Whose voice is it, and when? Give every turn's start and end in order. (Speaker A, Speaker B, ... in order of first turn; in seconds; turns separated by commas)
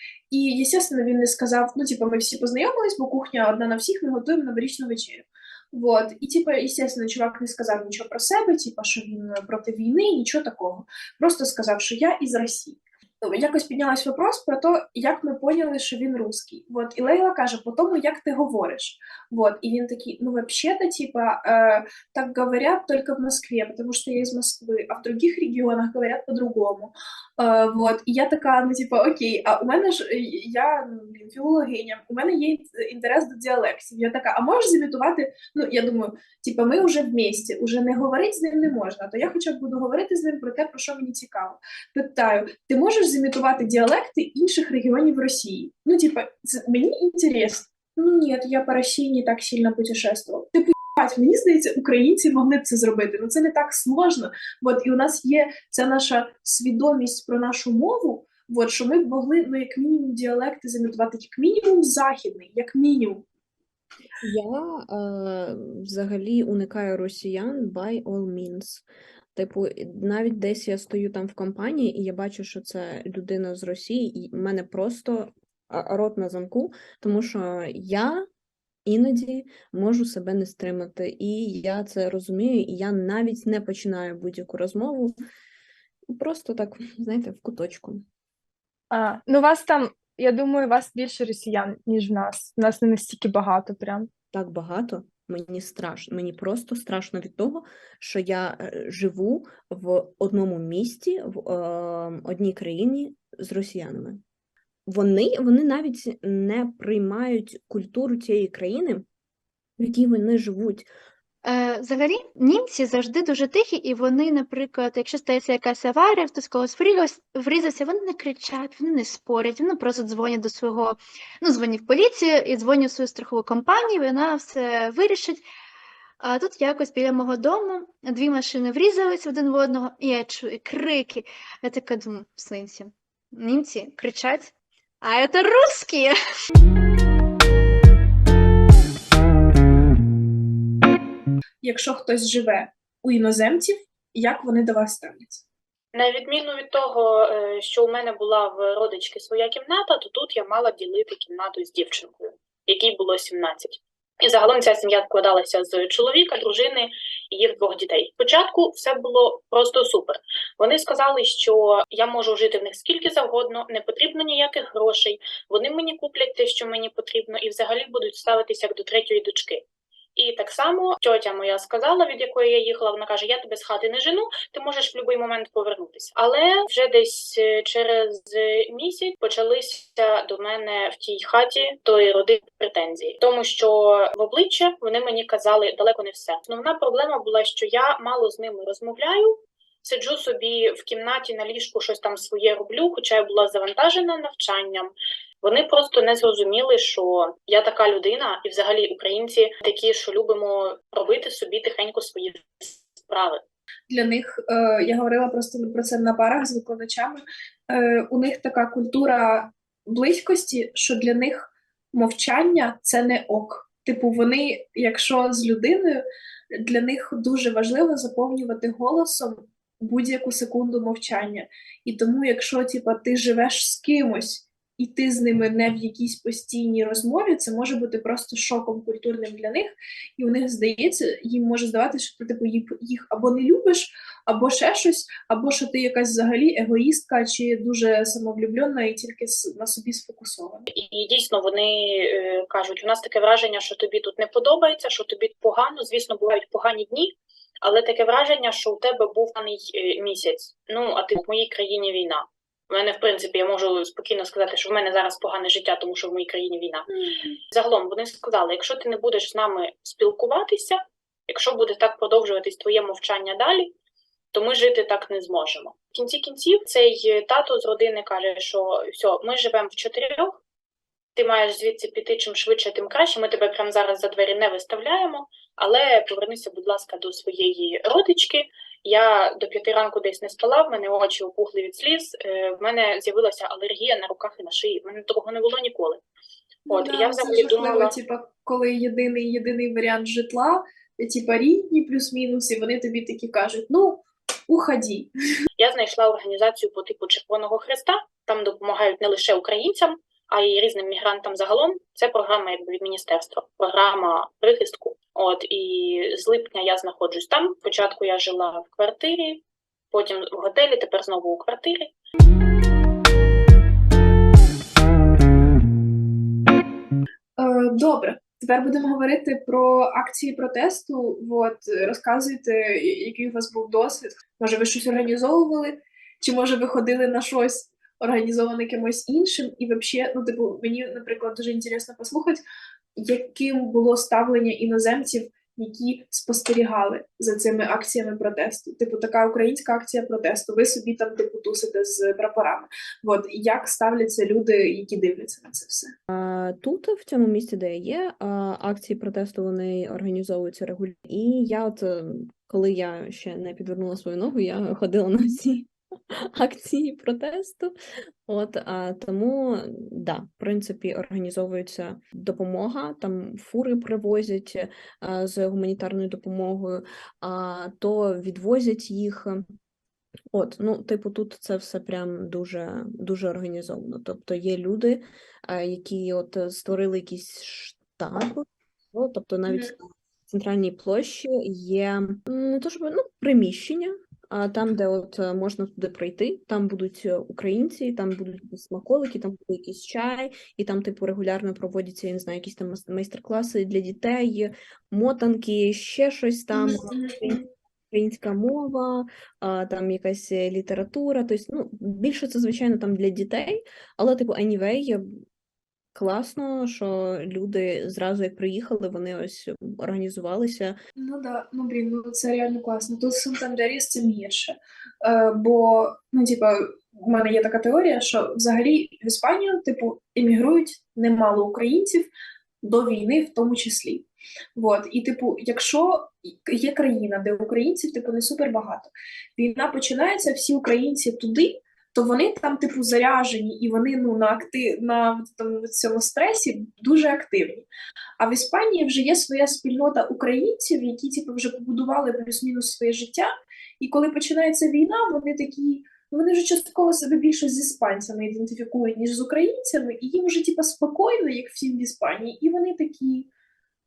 Speaker A: 0.3-63.2, Speaker B: 64.2-78.2, Speaker B: 78.8-85.1, Speaker B: 86.1-88.0, Speaker C: 88.9-94.1, Speaker B: 94.3-104.2, Speaker B: 104.8-109.0, Speaker B: 109.8-110.9, Speaker D: 111.4-125.4, Speaker D: 126.2-136.2, Speaker A: 141.6-145.4, Speaker E: 145.9-169.6, Speaker E: 170.2-203.4, Speaker A: 203.9-240.7, Speaker E: 240.7-256.9, Speaker A: 257.0-257.4, Speaker E: 257.5-263.7, Speaker E: 264.3-270.4, Speaker E: 271.1-286.0, Speaker A: 286.7-295.1, Speaker E: 286.7-287.9, Speaker E: 295.6-311.9, Speaker A: 317.4-332.4, Speaker A: 332.9-345.9, Speaker B: 346.1-357.7, Speaker B: 358.2-369.4, Speaker B: 370.3-405.2, Speaker A: 379.5-379.7, Speaker A: 396.5-397.4, Speaker B: 405.9-410.8, Speaker A: 411.0-422.1, Speaker A: 422.6-437.7, Speaker A: 438.2-453.3